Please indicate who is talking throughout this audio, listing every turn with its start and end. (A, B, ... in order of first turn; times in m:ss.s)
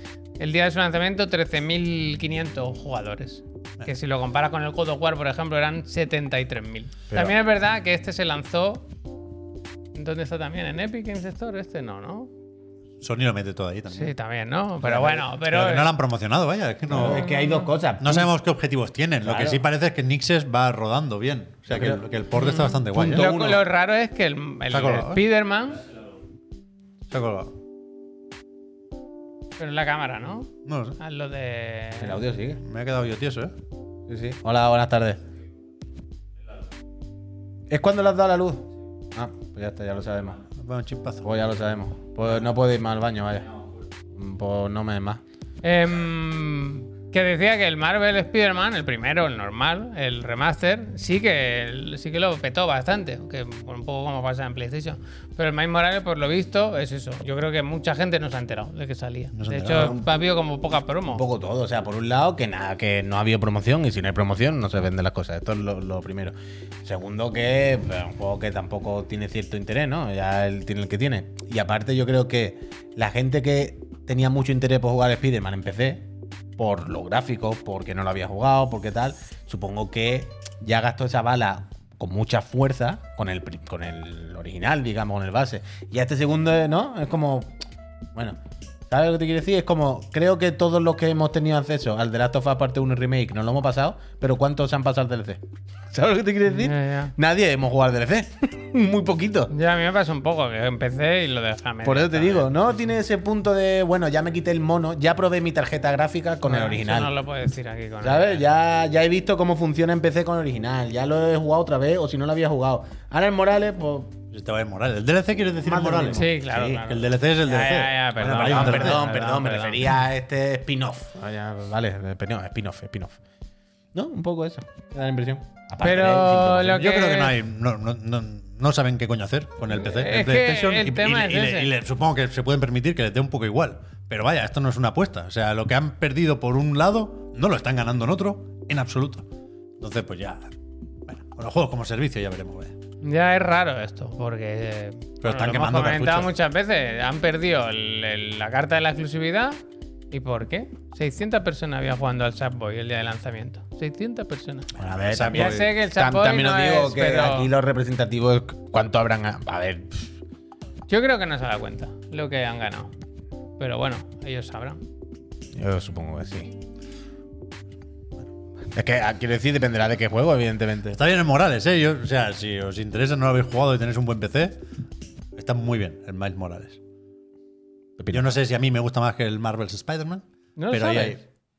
0:00.4-0:08.9 A
0:09.9-0:12.3 A
0:13.0-0:14.1 B
0:13.9-0:15.9 A
0:14.9-0:17.3 B
0:16.9-0:18.3 C
0:17.0-0:17.7 A
0:18.0-0:23.3 B
0:19.2-0:19.6 C
0:21.7-0:22.0 C
0:22.3-0:25.8 A
0:22.9-0:23.6 C
0:24.7-0:25.2 B
0:27.1-0:27.5 B
0:29.6-0:32.2 A
0:30.6-0:31.0 B
0:32.0-0:32.6 C
0:32.6-0:33.5 B
0:34.1-0:35.2 C
0:37.7-0:40.4 C
0:40.6-0:41.3 B
0:41.2-0:43.6 C
0:44.1-0:45.2 C
0:45.6-1:01.2 A
0:59.3-1:00.0 B
0:59.8-1:00.0 C
1:01.1-1:16.0 C
1:16.6-1:27.6 C
1:28.9-1:35.4 C
1:35.9-1:39.5 C
1:36.5-1:37.1 A
1:39.5-1:42.5 A
1:41.8-1:47.1 C
1:46.4-1:48.4 A
1:48.0-1:54.2 C
1:54.3-1:59.0 B
1:55.6-1:56.9 C
1:56.1-1:59.8 A
1:58.2-2:03.2 C
2:03.9-2:06.8 C
2:05.8-2:07.3 A
2:06.7-2:19.3 B
2:09.7-2:11.7 A
2:19.8-2:20.5 B
2:21.0-2:22.7 B
2:23.0-2:29.6 A
2:25.2-2:26.3 B
2:30.1-2:34.7 A
2:34.8-2:40.1 C
2:34.8-2:35.7 B
2:35.3-2:37.5 A
2:40.9-2:42.9 A
2:43.6-2:44.8 A
2:45.5-2:46.5 C
2:48.7-2:51.0 C
2:50.9-2:54.6 B
2:55.3-2:56.8 B
2:58.0-2:58.2 C
2:58.1-3:01.2 B
3:00.6-3:01.2 A